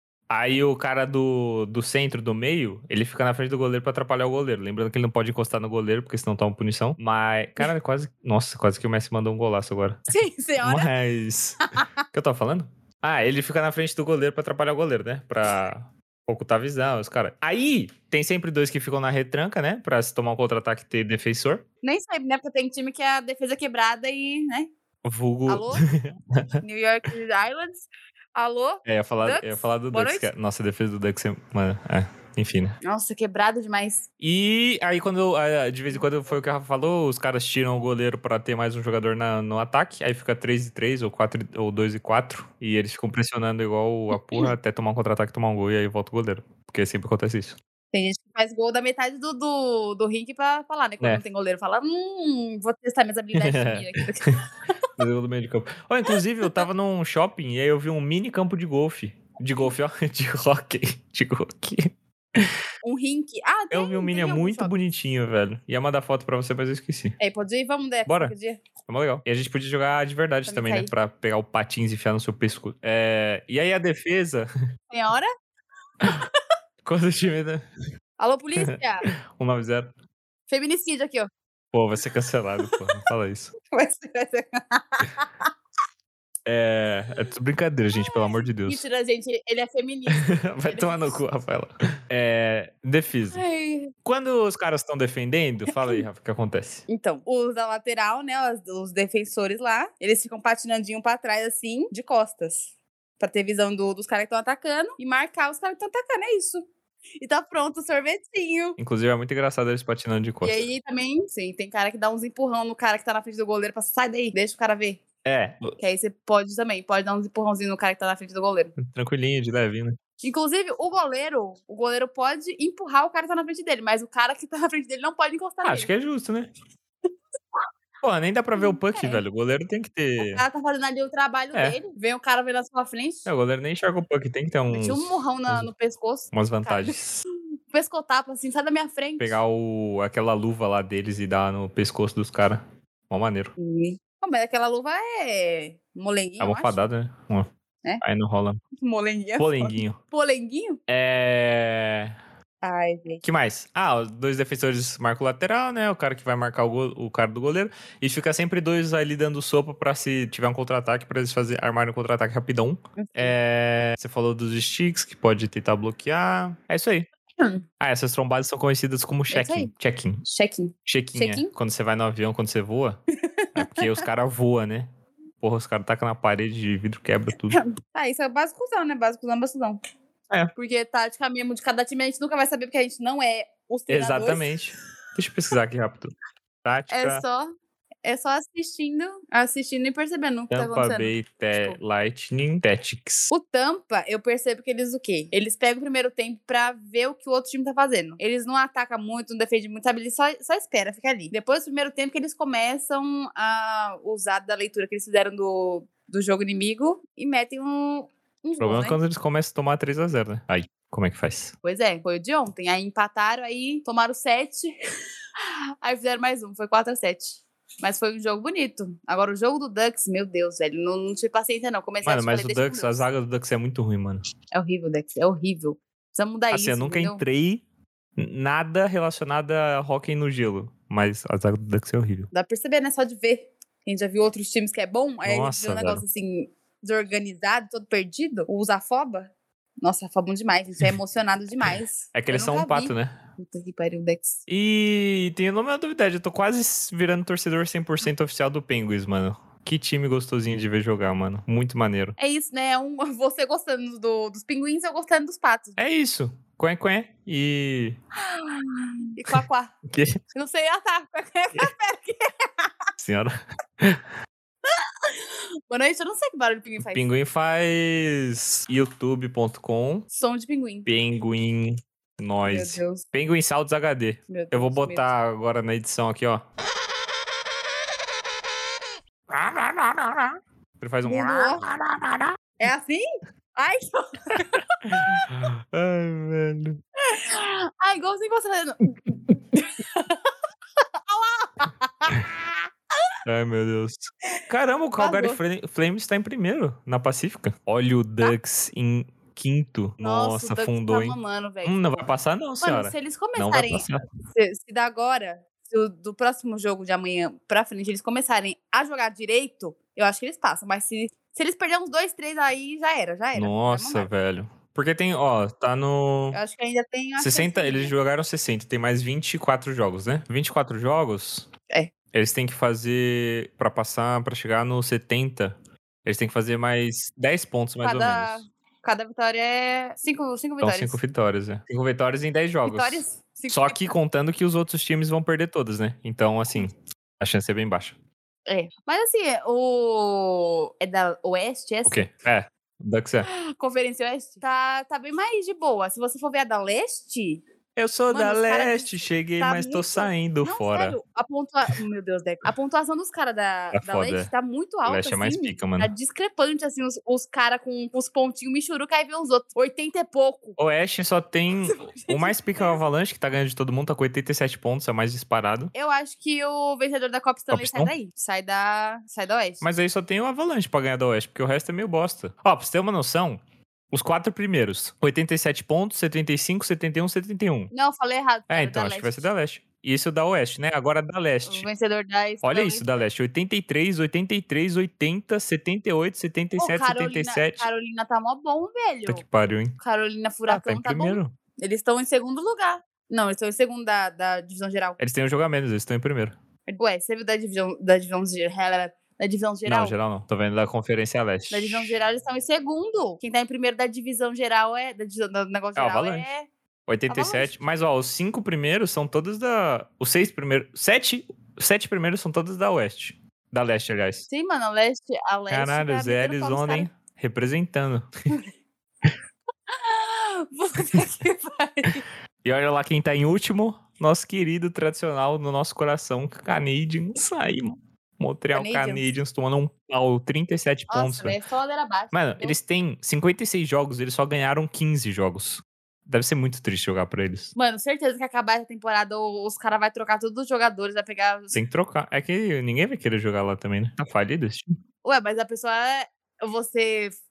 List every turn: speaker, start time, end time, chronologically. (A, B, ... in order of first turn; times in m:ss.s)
0:00.3-0:10.1 A
0:10.1-0:10.9 B
0:10.6-0:11.6 A
0:12.1-0:21.6 A
0:21.8-0:24.7 B
0:25.0-0:26.6 A
0:25.5-0:25.9 B
0:26.6-0:30.3 B
0:28.8-0:32.8 A
0:32.8-0:34.0 B
0:34.2-0:47.6 A
0:44.1-0:44.5 B
0:47.9-0:54.7 B
0:53.3-0:54.0 A
0:55.0-1:02.5 A
0:59.5-0:59.7 B
1:02.8-1:04.8 B
1:03.7-1:07.2 A
1:07.2-1:08.6 B
1:08.1-1:08.3 A
1:08.9-1:14.5 A
1:10.5-1:10.9 B
1:14.9-1:15.3 B
1:16.8-1:17.6 A
1:18.2-1:19.1 B
1:18.6-1:19.9 A
1:20.5-1:21.3 B
1:21.7-1:23.5 A
1:23.7-1:25.5 B
1:26.4-1:28.8 A
1:27.9-1:31.2 B
1:30.1-1:33.4 A
1:33.3-1:33.9 B
1:34.0-1:36.9 A
1:35.7-1:36.0 B
1:36.9-1:42.7 B
1:43.2-1:46.6 B
1:47.2-1:48.8 B
1:48.8-1:50.7 A
1:50.4-1:55.0 B
1:55.2-1:55.7 A
1:55.8-1:58.7 B
1:58.8-2:00.0 A
2:00.2-2:05.9 B
2:05.6-2:06.5 A
2:08.0-2:10.4 A
2:08.6-2:09.2 B
2:10.2-2:13.3 B
2:11.5-2:11.8 A
2:13.2-2:15.7 A
2:14.7-2:17.0 B
2:16.3-2:17.2 A
2:17.7-2:19.4 B
2:19.2-2:23.5 A
2:23.6-2:26.8 B
2:26.4-2:27.5 A
2:28.0-2:28.6 A
2:28.8-2:30.8 B
2:29.4-2:30.0 A
2:30.9-2:32.1 A
2:32.6-2:33.2 B
2:33.2-2:47.1 A
2:43.0-2:43.3 B
2:47.8-2:50.2 A
2:49.3-2:49.7 B
2:50.2-2:51.5 B
2:50.8-2:53.0 A
2:53.4-2:54.0 B
2:53.6-2:54.9 A
2:55.4-2:57.6 A
2:57.5-2:59.8 B
3:00.6-3:04.5 B
3:03.9-3:06.1 A
3:06.6-3:07.2 A
3:06.9-3:07.5 B
3:08.0-3:11.8 B
3:10.5-3:13.3 A
3:13.3-3:29.0 B
3:28.6-3:31.5 A
3:31.6-3:34.7 B
3:35.4-3:43.1 B
3:42.0-3:44.2 A
3:44.5-3:47.2 B
3:46.5-3:47.6 A
3:48.2-3:52.3 A
3:52.3-3:59.3 B
3:55.2-3:56.0 A
3:59.8-4:04.4 B
4:02.1-4:03.2 A
4:04.5-4:12.2 A
4:12.2-4:15.8 B
4:15.8-4:18.0 A
4:18.2-4:19.7 B
4:19.3-4:20.2 A
4:20.3-4:22.7 B
4:23.0-4:24.0 A
4:24.7-4:27.1 B
4:26.8-4:30.1 A
4:30.1-4:30.9 B
4:30.9-4:36.4 A
4:32.4-4:33.0 B
4:34.3-4:35.1 B
4:39.3-4:42.4 A
4:41.0-4:41.6 B
4:42.6-4:43.0 B
4:43.6-4:44.4 B
4:44.3-4:46.8 A
4:47.1-4:50.3 B
4:51.1-4:52.4 B
4:53.2-5:04.0 A
4:55.0-4:55.4 B
5:00.0-5:02.1 B
5:02.6-5:14.1 B
5:13.3-5:16.4 A
5:16.3-5:17.9 B
5:17.2-5:21.5 A
5:22.1-5:28.4 A
5:27.8-5:31.0 B
5:30.6-5:37.9 A
5:32.6-5:33.8 B
5:38.5-5:42.0 B
5:41.8-5:43.3 A
5:43.2-5:47.4 B
5:47.8-5:51.0 A
5:48.1-6:00.6 B
5:53.7-5:54.3 A
5:54.8-5:55.9 A
6:00.6-6:05.7 A
6:01.6-6:02.8 B
6:05.7-6:09.6 B
6:07.5-6:07.9 A
6:09.6-6:13.4 A
6:13.9-6:17.7 A
6:17.7-6:19.3 B
6:18.5-6:21.7 A
6:21.4-6:22.9 B
6:22.4-6:27.7 A
6:26.6-6:29.2 B
6:29.1-6:29.8 A
6:29.8-6:35.0 B
6:30.5-6:31.3 A
6:35.0-6:36.4 A
6:36.7-6:39.9 B
6:39.6-6:41.9 A
6:41.5-6:46.5 B
6:45.7-6:46.3 A
6:46.9-6:54.3 A
6:47.1-6:47.5 B
6:54.3-6:56.9 B
6:55.5-6:58.1 A
6:59.7-7:02.0 B
7:02.4-7:11.4 A
7:08.5-7:09.1 B
7:10.9-7:12.6 B
7:12.1-7:17.5 A
7:17.6-7:21.6 B
7:21.5-7:24.7 A
7:25.0-7:27.1 B